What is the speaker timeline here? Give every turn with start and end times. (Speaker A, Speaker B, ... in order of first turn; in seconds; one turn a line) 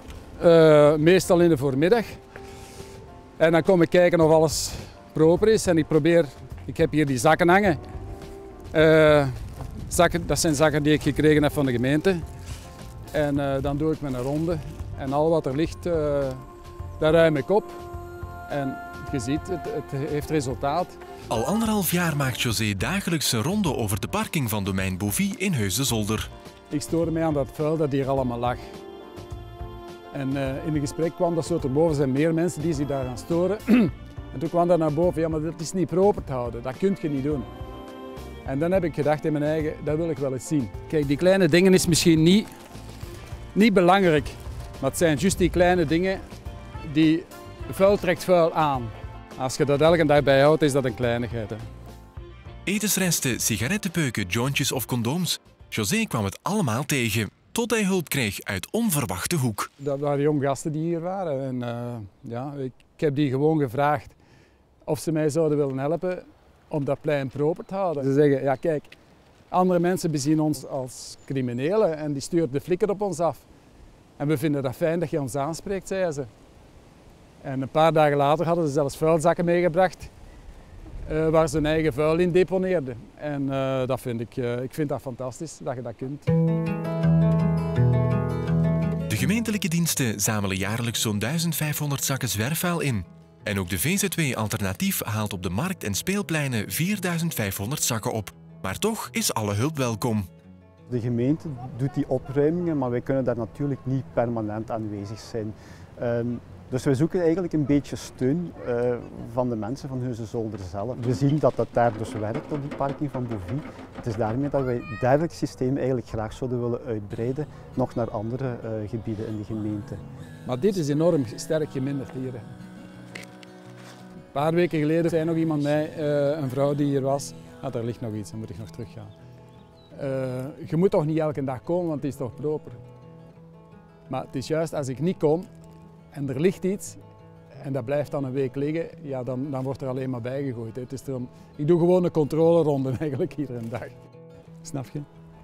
Speaker A: 0.4-2.1
Speaker A: 3.4-7.8
Speaker A: 8.7-12.2
Speaker A: 13.1-16.4
Speaker A: 17.0-17.8
Speaker A: 18.5-20.9
Speaker B: 21.3-26.3
Speaker A: 26.7-28.6
Speaker A: 30.1-37.5
Speaker A: 38.4-42.5
Speaker A: 43.5-46.2
Speaker A: 46.8-51.6
Speaker B: 52.6-59.7
Speaker A: 59.8-64.2
Speaker A: 64.8-68.9
Speaker A: 69.5-73.5
Speaker A: 74.2-76.3
Speaker A: 77.4-80.1
Speaker A: 81.0-86.3
Speaker B: 89.1-100.3
Speaker C: 100.9-120.0
Speaker A: 120.5-122.5
Speaker A: 124.3-129.1
Speaker A: 129.9-132.8
Speaker A: 134.1-135.5
Speaker A: 136.1-137.0
Speaker A: 137.6-144.0
Speaker A: 144.6-145.1